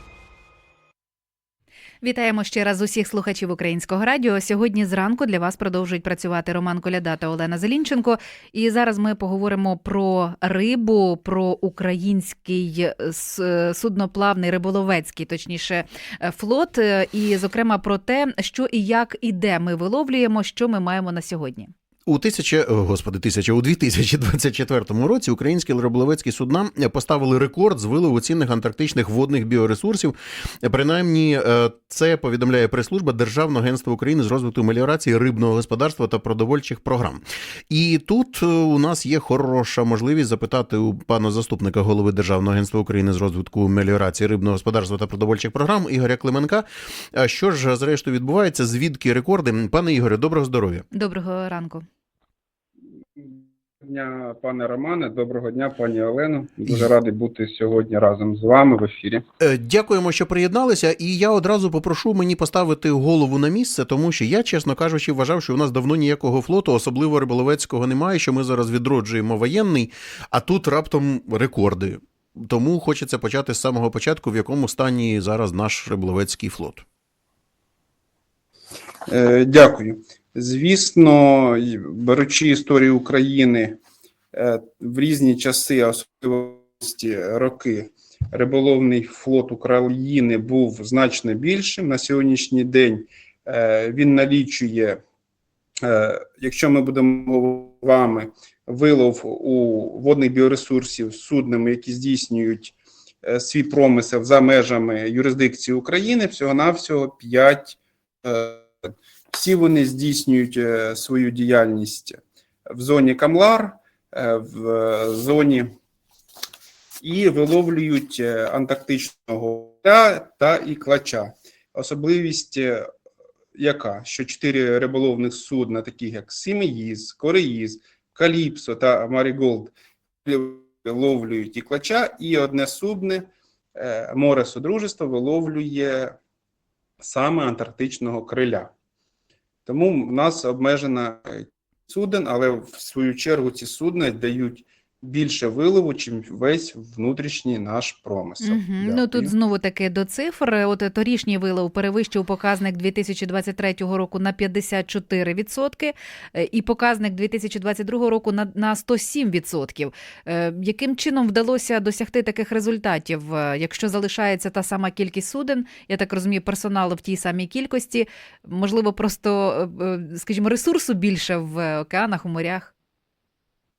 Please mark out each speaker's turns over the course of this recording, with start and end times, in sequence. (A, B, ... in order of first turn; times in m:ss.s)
0:02.0-0:21.7 A
0:22.1-0:50.8 B
0:50.9-0:51.8 A
0:53.2-0:59.2 C
0:59.4-1:16.8 B
1:19.1-1:23.8 C
1:24.3-1:35.0 C
1:35.8-1:48.7 C
1:49.3-1:55.7 C
1:57.0-2:02.9 C
2:03.6-2:16.2 C
2:17.0-2:18.7 C
2:19.6-2:29.3 C
2:28.4-2:52.7 A